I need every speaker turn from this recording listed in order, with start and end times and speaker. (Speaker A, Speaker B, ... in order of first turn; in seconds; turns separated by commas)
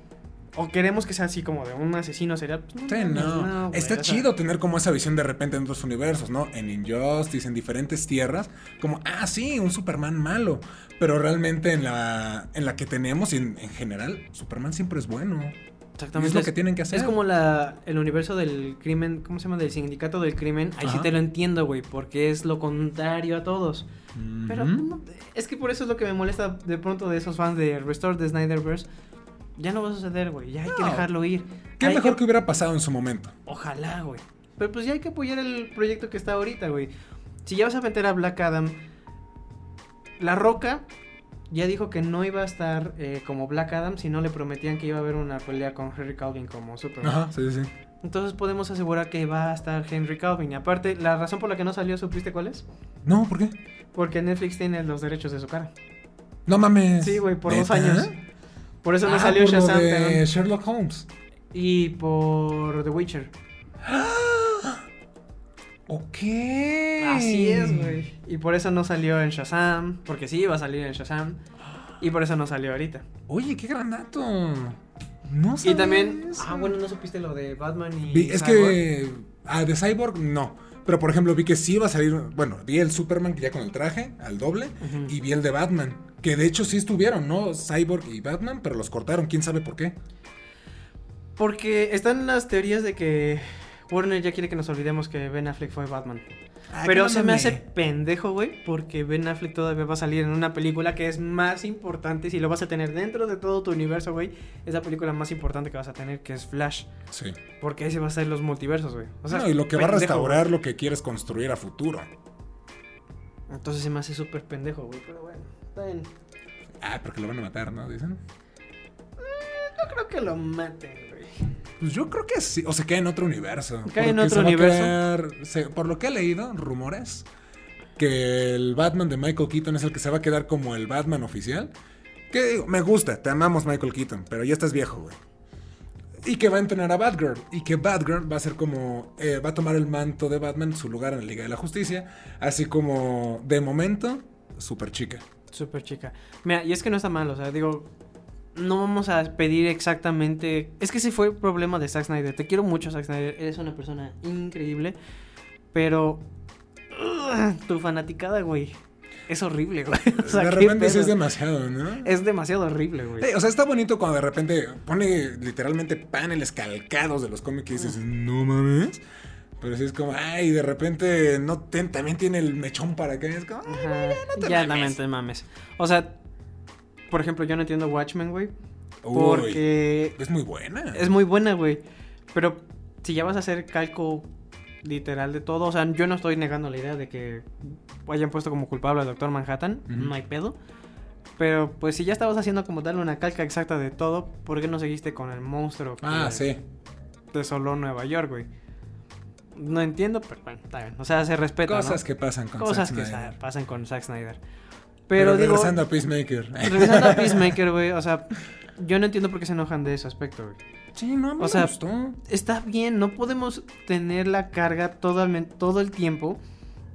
Speaker A: 0.5-4.3, Speaker B: 2.9-15.5, Speaker A: 16.0-23.9, Speaker B: 16.1-17.2, Speaker B: 20.8-21.1, Speaker B: 24.1-24.8, Speaker A: 24.5-28.9, Speaker A: 29.6-32.2, Speaker B: 30.7-31.1, Speaker B: 31.8-33.3, Speaker A: 33.5-36.9, Speaker A: 37.4-38.8, Speaker A: 40.2-40.8, Speaker A: 41.5-47.2, Speaker B: 47.0-47.7, Speaker A: 48.0-52.6, Speaker B: 53.0-53.5, Speaker A: 53.9-55.7, Speaker B: 56.5-58.1, Speaker A: 57.0-58.1, Speaker A: 58.8-60.2, Speaker B: 59.0-61.1, Speaker A: 61.5-63.3, Speaker B: 63.8-64.8, Speaker B: 65.9-68.0, Speaker A: 67.0-71.4, Speaker A: 72.0-73.0, Speaker B: 73.3-76.7, Speaker A: 75.6-78.8, Speaker B: 78.1-90.0, Speaker A: 84.8-85.1, Speaker A: 91.4-96.3, Speaker B: 96.7-97.6, Speaker A: 96.8-106.9, Speaker B: 107.1-107.4, Speaker A: 107.6-110.5, Speaker B: 109.3-112.1, Speaker A: 113.5-116.1, Speaker B: 116.8-118.2, Speaker A: 119.2-121.4, Speaker B: 121.8-127.3, Speaker A: 123.8-125.0, Speaker B: 128.0-131.7, Speaker B: 132.3-135.2, Speaker B: 136.2-145.2, Speaker A: 145.5-147.9, Speaker A: 148.5-154.9, Speaker A: 155.7-156.3, Speaker A: 156.9-158.8, Speaker A: 159.3-161.2, Speaker B: 160.2-162.1, Speaker A: 162.0-163.3, Speaker B: 163.2-169.0, Speaker B: 169.6-174.9, Speaker A: 173.7-176.2, Speaker A: 177.1-178.5, Speaker B: 179.0-181.1, Speaker A: 179.1-180.2, Speaker A: 180.9-184.3, Speaker A: 184.8-190.6, Speaker B: 189.9-190.1, Speaker A: 191.4-196.5, Speaker B: 196.0-196.6, Speaker A: 197.3-198.5, Speaker A: 199.5-202.0, Speaker B: 201.6-203.3, Speaker A: 202.6-204.4, Speaker A: 205.1-205.8, Speaker B: 205.1-207.6, Speaker A: 206.6-210.6, Speaker B: 210.9-212.2, Speaker A: 211.4-211.7, Speaker A: 212.2-216.4